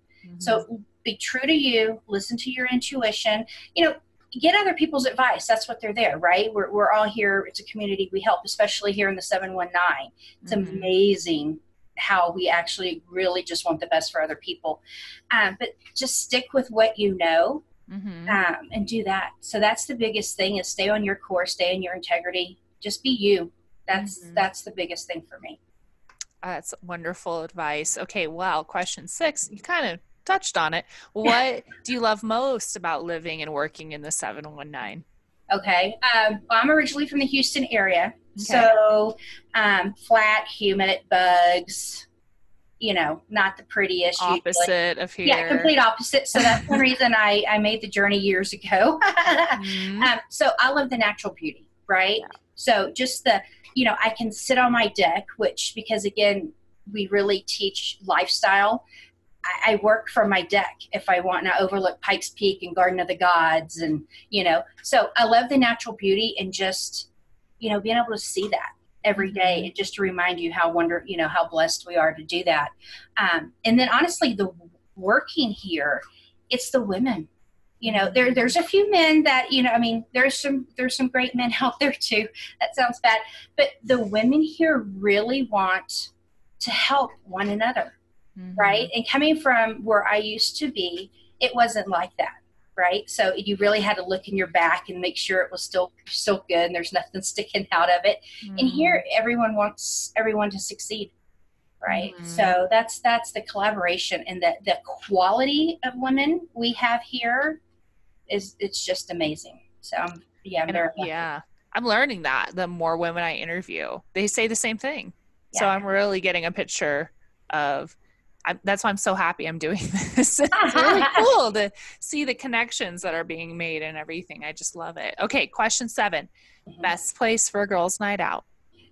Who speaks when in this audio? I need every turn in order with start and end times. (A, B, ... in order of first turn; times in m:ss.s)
0:00.2-0:00.6 A
0:00.4-0:14.8 B
0:10.4-0:10.9 A
0:15.3-0:17.6 B
0:17.9-0:18.4 A
0:18.3-0:25.6 B
0:23.9-0:24.4 A
0:26.4-0:35.0 A
0:35.5-0:42.0 B
0:38.4-0:38.7 A
0:42.8-0:44.7 B
0:44.2-0:45.7 A
0:45.2-0:58.8 B
0:46.4-0:46.8 A
0:49.5-0:50.1 A
0:59.4-1:07.1 B
1:07.6-1:17.3 B
1:09.2-1:09.7 A
1:17.8-1:27.9 B
1:17.8-1:18.4 A
1:28.4-1:28.9 A
1:28.6-1:41.1 B
1:38.4-1:39.0 A
1:41.8-1:47.6 B
1:41.9-1:42.5 A
1:48.3-1:51.2 B
1:50.7-2:06.3 A
1:55.5-1:55.8 B
2:00.5-2:01.2 B
2:06.8-2:08.4 A